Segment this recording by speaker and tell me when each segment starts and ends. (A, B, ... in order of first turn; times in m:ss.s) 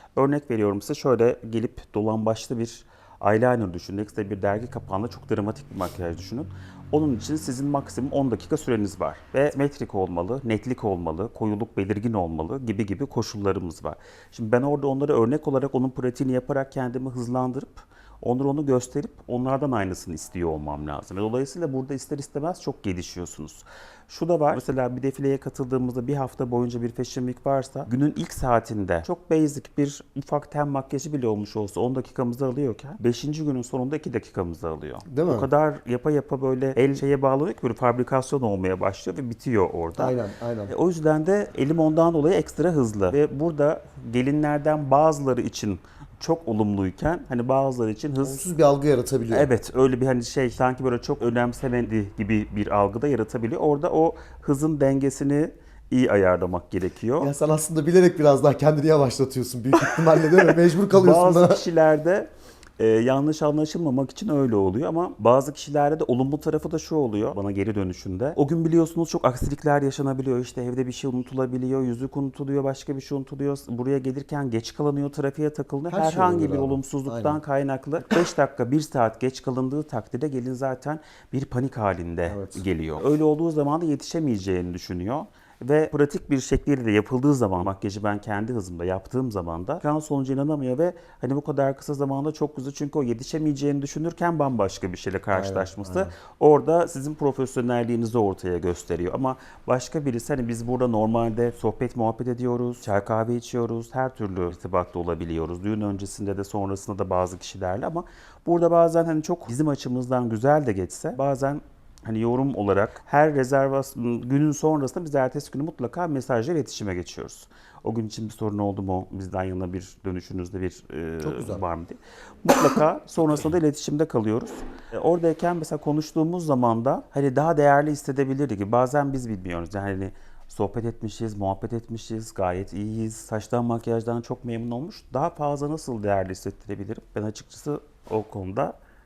0:00.2-0:40.2 A
0:35.1-0:35.5 B
0:40.0-0:40.7 B
0:40.7-0:48.4 A
0:48.2-0:49.5 B
0:49.3-0:57.3 A
0:57.2-1:01.6 B
0:59.8-2:18.8 A
1:15.9-1:17.4 B
1:22.3-1:22.6 B
1:35.3-1:36.1 B
2:01.2-2:01.6 B